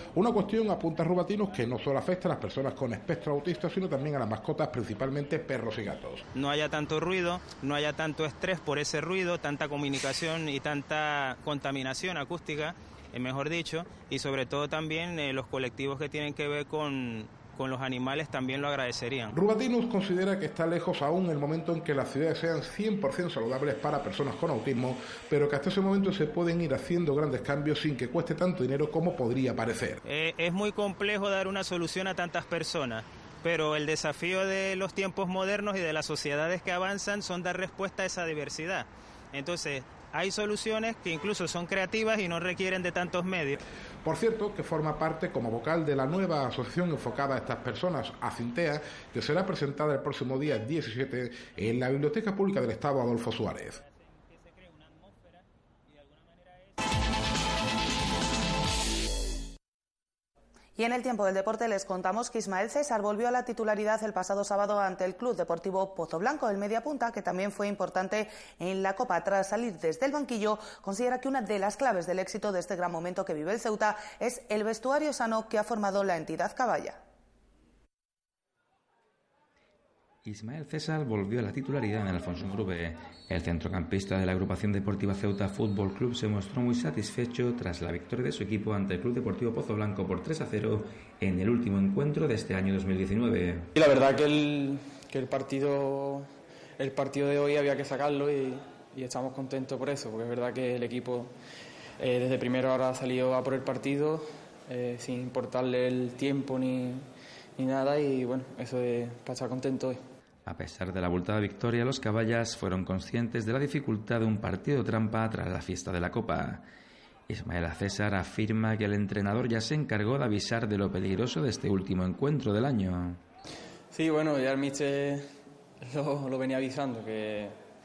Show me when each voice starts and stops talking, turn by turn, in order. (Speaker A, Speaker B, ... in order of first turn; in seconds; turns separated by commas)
Speaker A: 0.1-6.2, Speaker B: 6.3-19.3, Speaker A: 19.3-30.0, Speaker B: 30.0-43.6, Speaker A: 44.0-53.8, Speaker B: 54.3-55.0, Speaker B: 56.2-56.5, Speaker C: 60.8-77.0, Speaker D: 80.2-93.7, Speaker E: 93.8-96.2, Speaker E: 96.8-101.3, Speaker E: 102.0-107.0, Speaker E: 107.6-110.0, Speaker D: 110.4-116.6, Speaker D: 117.3-123.2, Speaker E: 123.9-125.2, Speaker E: 125.8-127.5